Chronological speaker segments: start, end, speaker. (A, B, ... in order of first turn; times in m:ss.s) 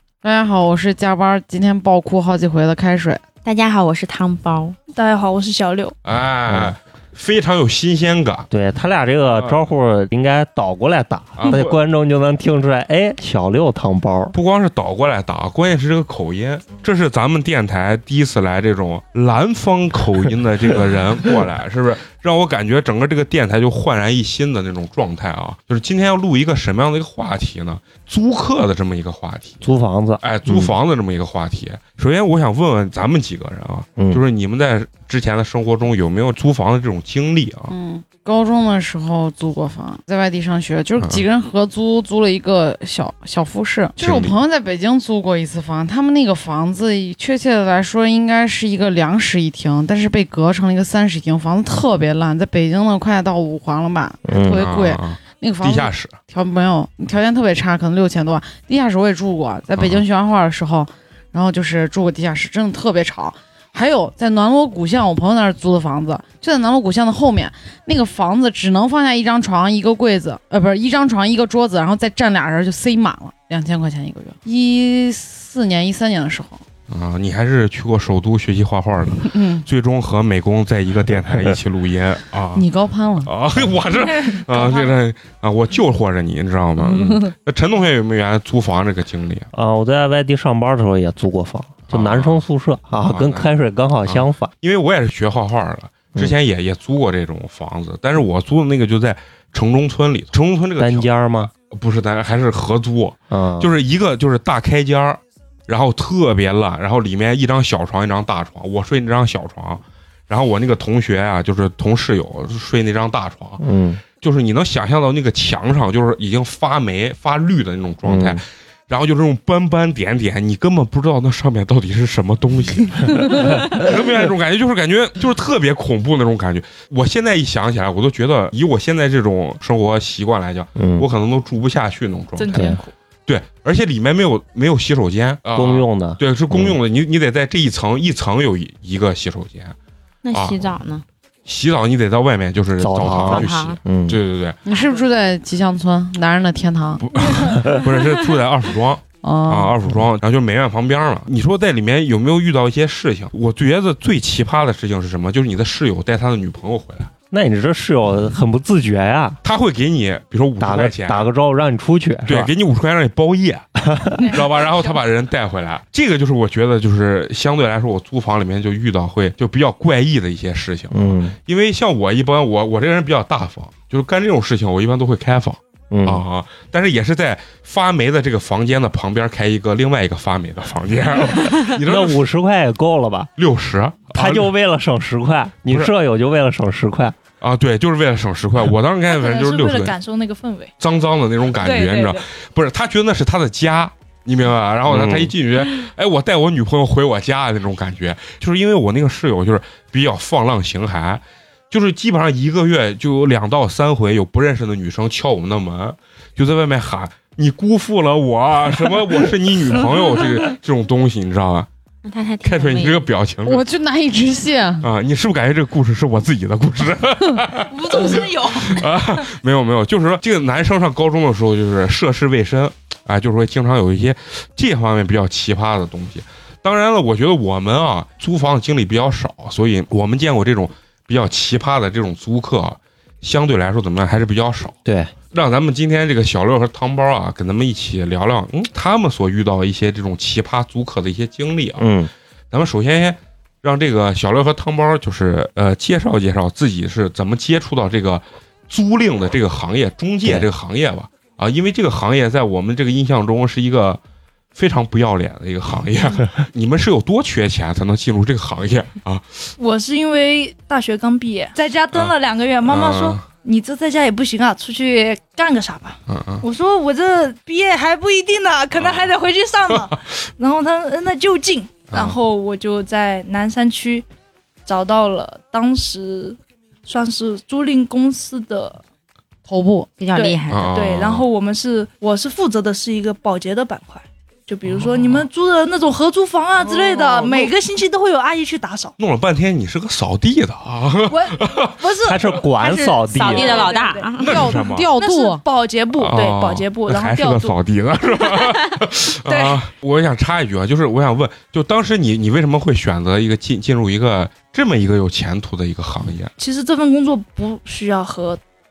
0:00.2-0:03.2 A
0:03.4-0:04.8 B
0:04.9-0:06.0 C
0:06.0-0:08.5 D
0:08.5-0:14.4 E
0:09.3-0:09.6 D
0:11.4-0:11.8 D
0:14.3-0:29.6 D
0:29.6-0:30.7 E
0:30.2-0:37.8 D
0:34.0-0:34.2 E
0:37.7-1:16.6 A
0:44.0-0:44.4 D
0:54.3-0:54.6 E
0:54.4-0:56.2 D
0:59.8-1:00.0 D
1:16.9-1:22.7 D
1:19.2-1:19.6 A
1:22.5-1:23.3 A
1:23.2-1:29.5 D
1:23.9-1:24.9 C
1:29.5-1:34.5 E
1:31.9-1:32.4 D
1:33.0-1:33.5 D
1:34.0-2:12.8 D
1:40.8-1:41.5 E
1:43.3-1:43.7 E
1:53.6-1:54.0 E
1:58.0-1:58.4 E
2:03.2-2:03.8 E
2:10.8-2:11.1 E
2:12.4-2:12.9 C
2:12.5-2:12.8 E
2:13.3-2:19.8 D
2:15.5-2:16.8 E
2:20.2-2:21.0 B
2:20.3-2:20.7 D
2:21.5-2:24.6 D
2:22.8-2:24.2 E
2:23.1-2:23.8 B
2:24.6-2:27.0 A
2:27.0-2:37.1 D
2:29.2-2:29.8 A
2:37.3-2:39.4 E
2:39.4-2:41.3 D
2:40.6-2:42.5 E
2:42.3-3:02.2 D
2:43.8-2:44.4 E
2:50.9-2:51.4 E
2:55.9-2:56.2 E
3:01.6-3:03.3 E
3:03.4-3:04.5 D
3:04.1-3:07.2 E
3:07.4-3:10.0 D
3:09.1-3:10.7 C
3:10.8-3:31.7 D
3:11.6-3:12.2 C
3:14.9-3:15.3 E
3:32.0-3:33.0 B
3:32.4-3:33.6 D
3:33.4-3:34.9 A
3:34.8-4:01.9 D
3:37.8-3:38.7 C
3:38.0-3:38.3 B
3:54.8-3:55.1 E
4:01.8-4:02.1 E
4:02.5-4:14.0 D
4:14.6-4:19.3 D
4:19.6-4:34.1 C
4:22.7-4:23.2 D
4:26.1-4:26.4 D
4:28.8-4:29.1 D
4:31.9-4:32.2 D
4:34.7-4:38.8 C
4:39.5-4:39.9 A
4:40.0-4:40.7 B
4:40.2-4:49.0 C
4:40.5-4:41.3 D
4:44.7-4:45.3 D
4:46.6-4:47.5 A
4:49.0-4:51.8 D
4:51.1-4:57.6 C
4:52.0-4:53.7 E
4:53.0-4:54.4 B
4:54.2-4:55.4 A
4:54.2-4:54.9 D
4:56.0-5:06.3 D
4:59.3-4:59.6 C
5:06.4-5:08.4 C